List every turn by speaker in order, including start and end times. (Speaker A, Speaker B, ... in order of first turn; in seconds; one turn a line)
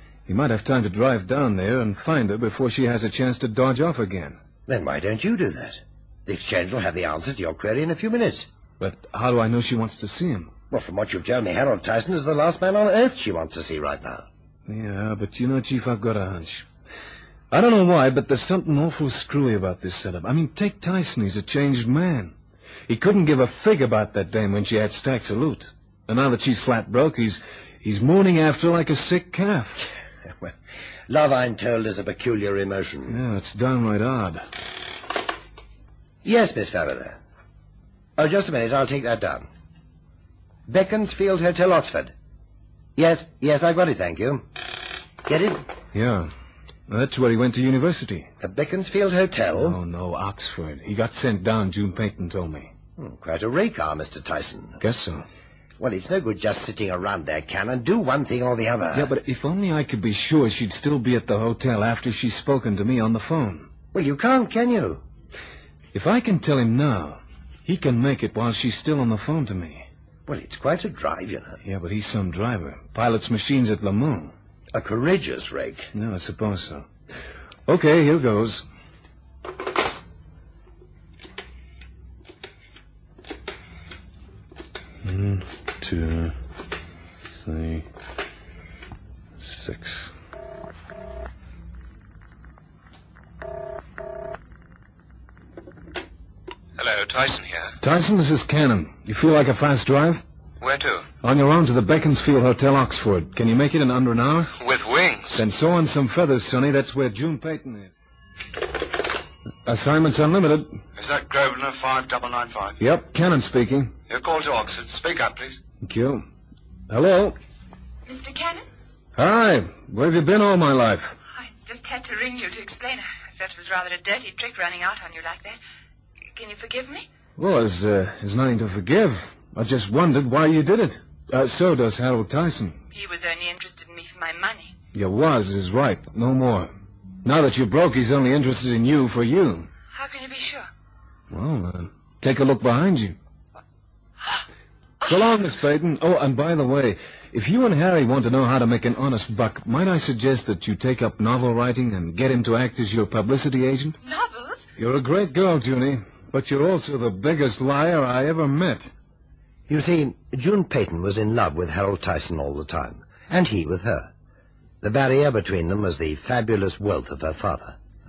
Speaker A: 0.3-4.4
Speaker B: 4.7-8.5
Speaker A: 8.8-10.5
Speaker B: 10.7-14.3
Speaker A: 14.7-16.7
Speaker A: 17.5-22.3
Speaker A: 22.9-29.8
Speaker B: 31.1-33.2
Speaker A: 33.1-34.4
Speaker B: 36.2-37.2
Speaker B: 38.2-39.5
Speaker B: 40.7-42.1
Speaker B: 43.0-44.5
Speaker B: 45.2-45.6
Speaker A: 45.9-46.3
Speaker A: 46.9-48.3
Speaker B: 48.4-49.8
Speaker A: 49.6-52.7
Speaker B: 53.0-54.8
Speaker A: 54.8-55.2
Speaker B: 55.8-59.1
Speaker A: 58.9-63.7
Speaker B: 63.9-65.0
Speaker A: 65.9-69.9
Speaker B: 70.3-71.6
Speaker A: 71.6-74.3
Speaker B: 74.7-75.9
Speaker A: 75.9-76.9
Speaker A: 77.7-78.7
Speaker A: 85.0-86.3
Speaker A: 87.4-87.9
Speaker A: 89.4-90.1
Speaker C: 96.8-97.7
Speaker A: 97.8-100.2
Speaker C: 100.6-101.1
Speaker A: 101.2-104.6
Speaker C: 104.6-105.3
Speaker A: 105.3-107.9
Speaker A: 109.7-110.8
Speaker D: 111.0-112.8
Speaker A: 112.8-113.9
Speaker D: 114.1-115.6
Speaker A: 115.8-116.2
Speaker A: 116.9-117.4
Speaker E: 118.1-118.7
Speaker A: 119.2-121.2
Speaker E: 121.3-125.6
Speaker E: 126.3-127.1
Speaker A: 127.4-132.8
Speaker E: 132.9-134.8
Speaker A: 134.9-136.7
Speaker A: 137.2-139.7
Speaker E: 139.9-140.7
Speaker A: 141.3-143.2
Speaker A: 145.0-154.0
Speaker E: 154.0-154.7
Speaker A: 154.8-158.9
Speaker B: 159.7-164.1
Speaker B: 164.8-167.8